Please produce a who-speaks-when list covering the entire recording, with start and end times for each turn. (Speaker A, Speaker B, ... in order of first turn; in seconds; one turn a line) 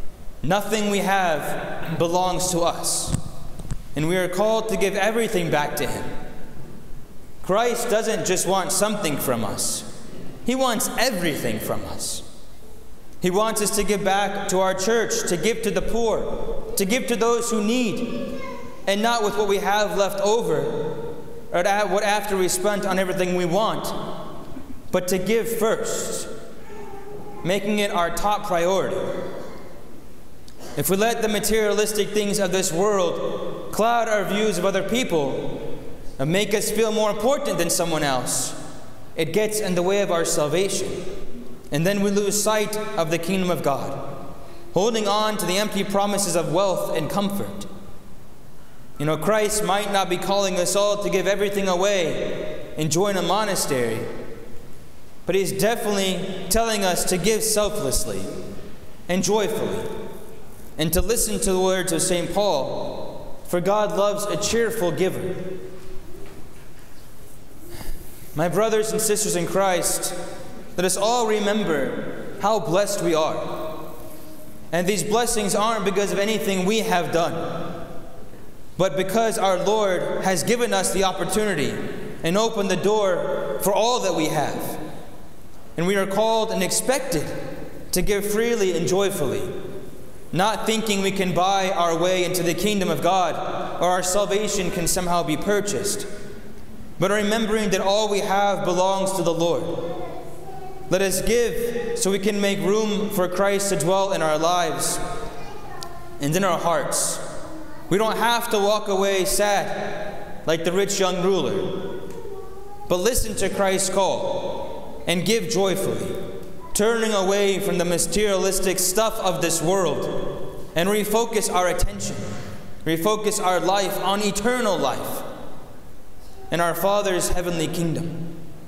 Speaker A: 0.4-3.2
Speaker A: 4.0-6.1
Speaker A: 7.4-9.9
Speaker A: 10.4-12.2
Speaker A: 13.2-24.0
Speaker A: 24.9-26.3
Speaker A: 27.4-29.2
Speaker A: 30.8-38.6
Speaker A: 39.1-41.0
Speaker A: 41.7-44.2
Speaker A: 44.7-47.7
Speaker A: 49.0-54.1
Speaker A: 55.2-58.3
Speaker A: 59.1-59.9
Speaker A: 60.8-65.6
Speaker A: 68.3-70.2
Speaker A: 70.8-73.8
Speaker A: 74.7-77.8
Speaker A: 78.8-84.8
Speaker A: 85.8-87.3
Speaker A: 87.9-89.5
Speaker A: 90.3-96.1
Speaker A: 97.0-100.0
Speaker A: 100.9-105.0
Speaker A: 106.2-107.2
Speaker A: 107.9-112.0
Speaker A: 112.9-116.2
Speaker A: 116.7-122.3
Speaker A: 122.8-125.3
Speaker A: 126.5-128.3